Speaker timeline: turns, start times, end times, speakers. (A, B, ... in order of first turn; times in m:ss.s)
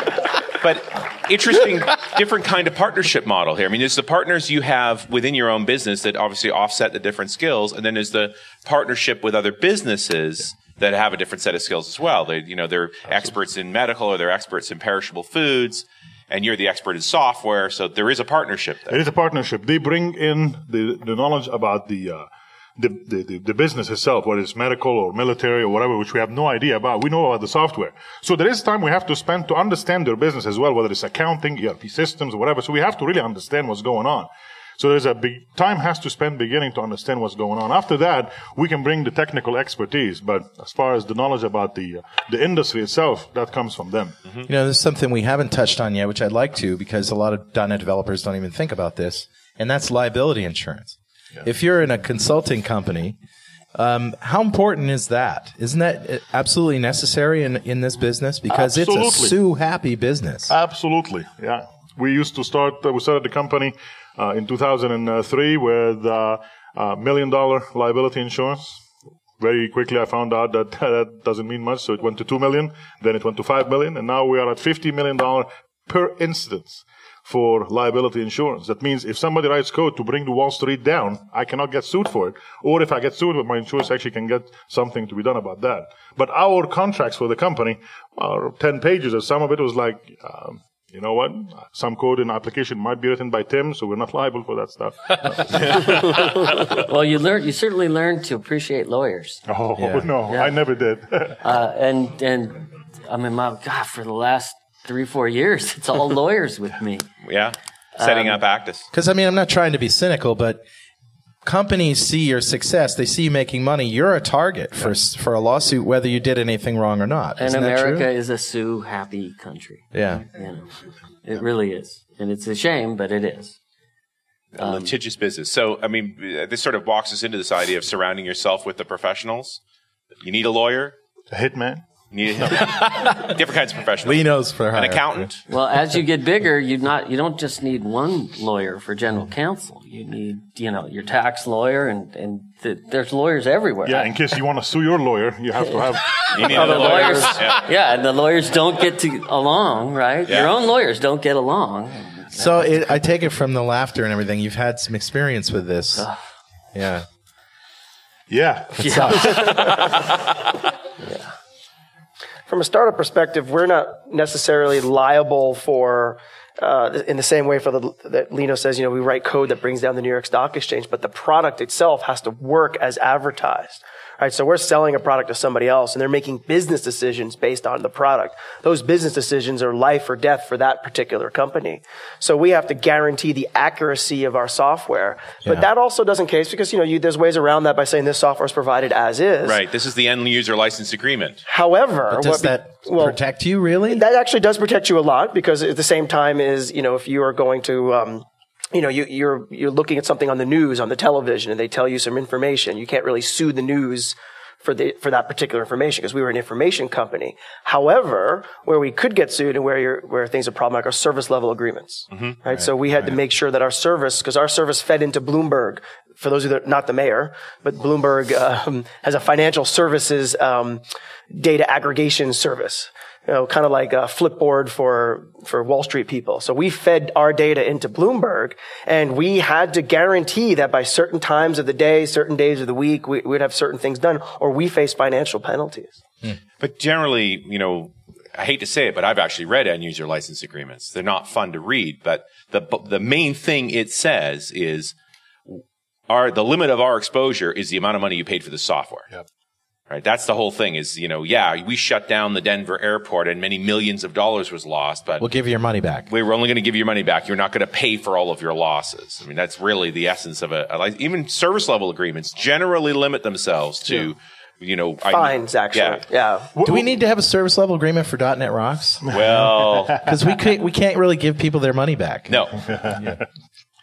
0:00.6-0:19.0 A
0:18.9-0:44.2 B
0:44.4-0:53.2 C
0:53.7-1:00.5 C
0:58.5-0:59.4 B
1:00.5-1:08.8 B
1:09.4-1:36.8 B
1:36.7-1:39.4 D
1:39.5-1:41.4 B
1:39.8-1:40.1 C
1:41.4-1:47.0 D
1:47.2-1:48.9 A
1:48.0-1:48.4 D
1:48.9-1:50.6 C
1:51.4-1:58.1 C
1:57.4-2:00.7 D
1:59.9-2:00.2 C
2:01.2-2:03.6 D
2:04.5-2:09.6 A
2:04.6-2:04.9 D
2:10.2-2:10.9 A
2:11.3-2:11.8 B
2:12.1-2:15.4 A
2:12.4-2:12.7 B
2:14.0-2:15.3 C
2:15.5-2:24.1 D
2:23.8-2:27.1 B
2:26.3-2:27.6 A
2:26.3-2:32.8 D
2:26.5-2:27.4 E
2:32.3-2:36.1 C
2:36.7-2:37.0 C
2:38.3-2:39.9 B
2:38.8-2:40.0 D
2:38.8-2:39.5 C
2:41.0-2:41.3 D
2:42.5-3:09.6 E
3:09.4-3:11.4 A
3:11.5-3:13.2 E
3:12.1-3:14.0 C
3:13.9-3:56.0 E
3:56.6-4:04.9 A
4:05.5-4:09.1 A
4:09.9-4:15.3 A
4:15.2-4:16.1 C
4:16.1-4:26.0 A
4:25.0-4:26.5 E
4:26.6-4:26.9 B
4:26.6-4:29.2 C
4:29.0-4:30.1 B
4:29.1-4:30.1 A
4:30.0-4:32.4 C
4:32.3-4:32.6 A
4:32.7-4:33.2 B